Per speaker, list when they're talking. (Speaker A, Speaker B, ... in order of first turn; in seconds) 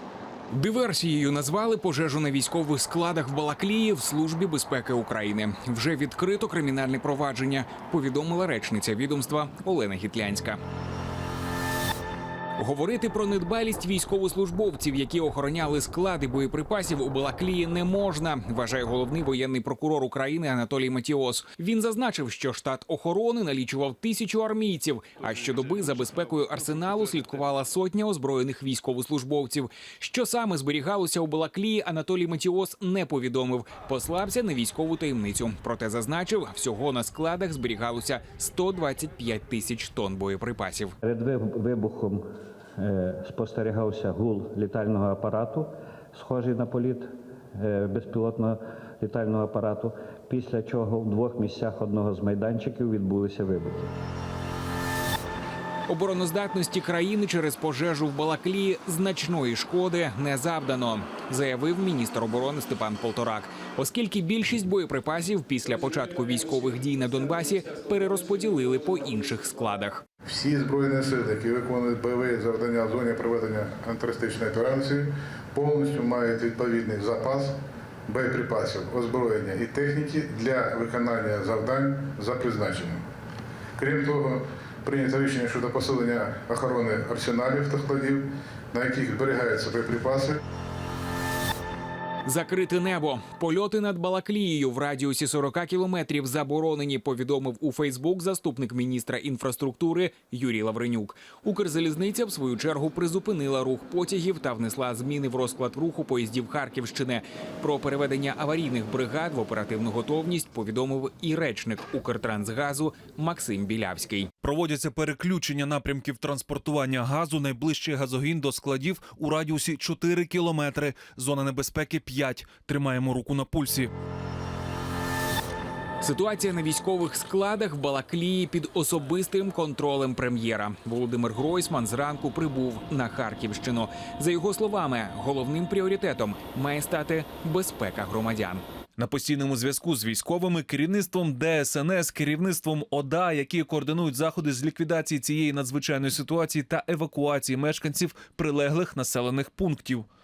Speaker A: 0.5-10.6, 12.6-41.0, 55.9-70.0, 92.2-114.3, 126.0-138.6
Speaker B: 41.0-42.3, 42.8-53.9
Speaker C: 70.3-77.5, 78.1-83.0, 83.8-90.4
Speaker D: 114.4-123.9, 139.0-150.1